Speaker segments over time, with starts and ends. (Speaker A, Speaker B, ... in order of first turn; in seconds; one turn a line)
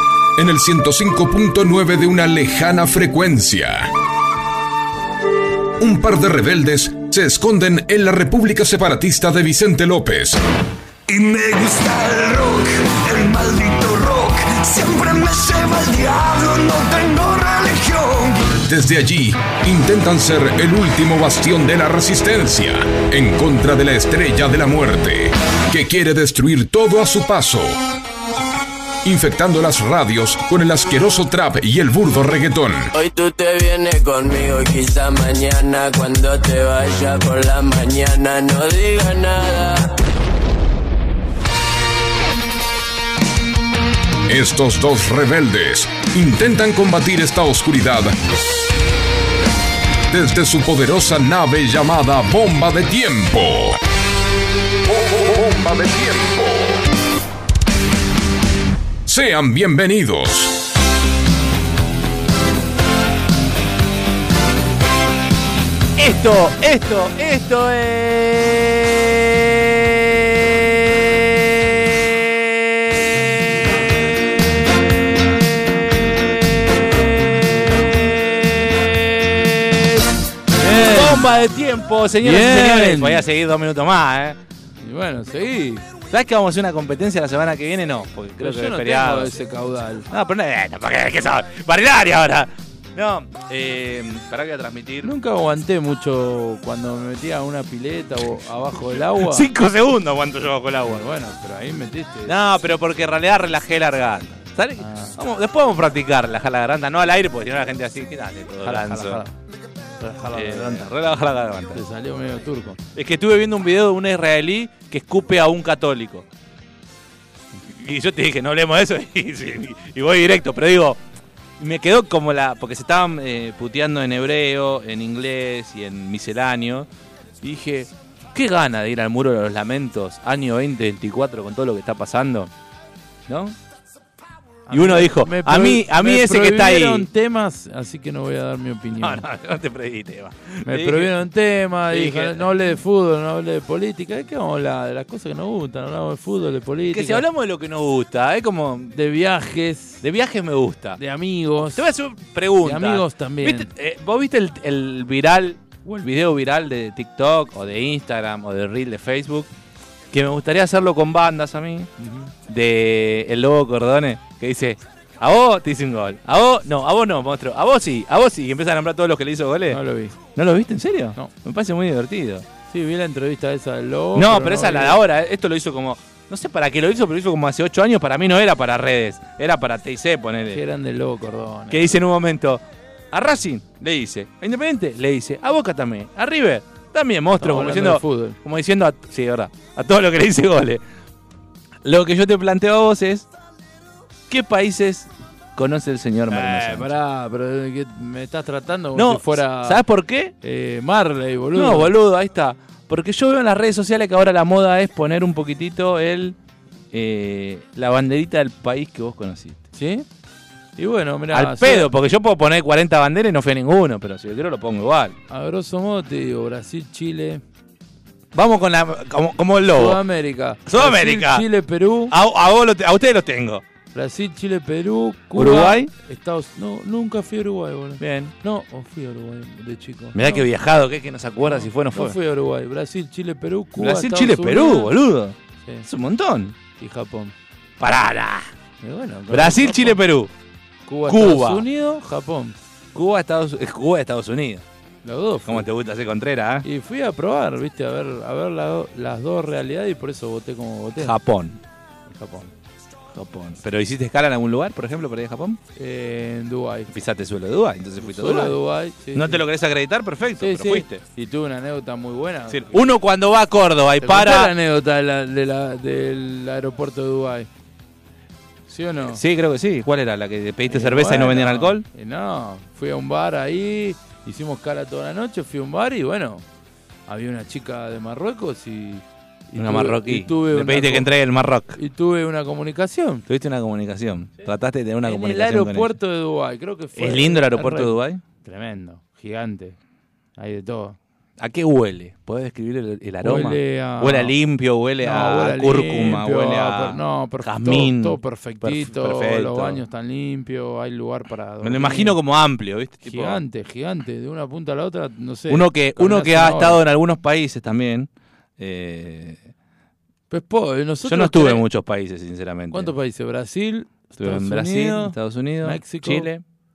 Speaker A: 0.4-3.9
Speaker A: 5.8-10.4
Speaker B: 11.1-18.5
Speaker A: 18.6-27.8
Speaker A: 29.0-32.9
Speaker C: 32.9-39.9
Speaker A: 44.3-48.2
Speaker A: 50.1-53.8
Speaker A: 54.9-56.8
Speaker A: 59.0-60.6
Speaker D: 66.0-71.3
Speaker E: 80.6-81.2
Speaker D: 80.7-84.4
Speaker E: 82.2-83.2
Speaker E: 84.8-85.8
Speaker D: 86.1-89.3
Speaker E: 88.4-90.1
Speaker D: 90.1-95.1
Speaker E: 95.0-99.5
Speaker D: 98.9-101.0
Speaker E: 100.8-102.3
Speaker D: 102.3-109.2
Speaker E: 104.8-105.2
Speaker E: 108.6-109.3
Speaker E: 110.0-110.9
Speaker D: 110.3-111.8
Speaker E: 111.7-112.8
Speaker D: 112.9-116.2
Speaker D: 117.7-121.0
Speaker D: 121.6-126.9
Speaker D: 127.4-132.5
Speaker D: 133.3-133.6
Speaker E: 134.7-139.2
Speaker D: 134.7-137.1
Speaker D: 139.0-141.2
Speaker E: 140.7-147.2
Speaker D: 141.9-142.5
Speaker D: 146.9-148.9
Speaker E: 148.9-150.0
Speaker D: 150.0-151.0
Speaker E: 151.0-151.8
Speaker D: 151.7-159.5
Speaker E: 152.6-153.7
Speaker D: 160.1-161.9
Speaker E: 162.0-162.3
Speaker D: 162.5-169.8
Speaker E: 169.7-170.2
Speaker D: 170.3-172.4
Speaker E: 172.7-175.0
Speaker D: 174.1-180.6
Speaker E: 180.5-182.0
Speaker D: 181.7-190.8
Speaker E: 187.3-188.4
Speaker D: 191.8-193.3
Speaker D: 194.3-196.9
Speaker E: 196.3-199.8
Speaker D: 198.9-200.3
Speaker E: 200.4-201.9
Speaker D: 201.5-206.3
Speaker D: 206.9-209.6
Speaker E: 209.7-210.1
Speaker E: 210.8-211.9
Speaker D: 211.3-215.2
Speaker E: 215.3-217.4
Speaker D: 218.3-220.0
Speaker E: 219.7-222.1
Speaker D: 220.7-221.4
Speaker D: 222.1-223.6
Speaker E: 223.9-230.4
Speaker D: 225.3-225.9
Speaker D: 228.0-228.3
Speaker D: 230.1-232.2
Speaker E: 231.5-234.9
Speaker D: 233.8-236.5
Speaker E: 236.8-237.3
Speaker D: 237.8-238.5
Speaker E: 238.8-240.0
Speaker D: 239.3-240.3
Speaker E: 240.9-242.5
Speaker D: 241.1-241.6
Speaker D: 242.9-244.6
Speaker E: 245.0-245.7
Speaker D: 245.4-246.7
Speaker E: 246.6-251.1
Speaker D: 251.0-251.6
Speaker E: 252.1-252.5
Speaker D: 253.1-255.6
Speaker E: 255.8-256.9
Speaker D: 256.9-258.6
Speaker E: 258.0-259.4
Speaker D: 259.1-261.0
Speaker E: 260.4-262.8
Speaker D: 262.5-264.5
Speaker E: 264.0-267.5
Speaker E: 268.7-269.2
Speaker D: 269.1-271.8
Speaker E: 270.7-276.4
Speaker E: 277.1-281.1
Speaker D: 279.6-281.8
Speaker E: 281.7-283.2
Speaker D: 283.3-285.9
Speaker E: 285.0-289.8
Speaker D: 286.9-288.2
Speaker E: 290.4-291.0
Speaker D: 291.4-299.8
Speaker E: 293.2-294.3
Speaker E: 295.0-302.2
Speaker D: 301.6-303.4
Speaker E: 303.0-306.8
Speaker D: 305.5-309.4
Speaker E: 310.3-311.6
Speaker D: 311.0-312.9
Speaker E: 312.7-316.3
Speaker D: 314.2-316.4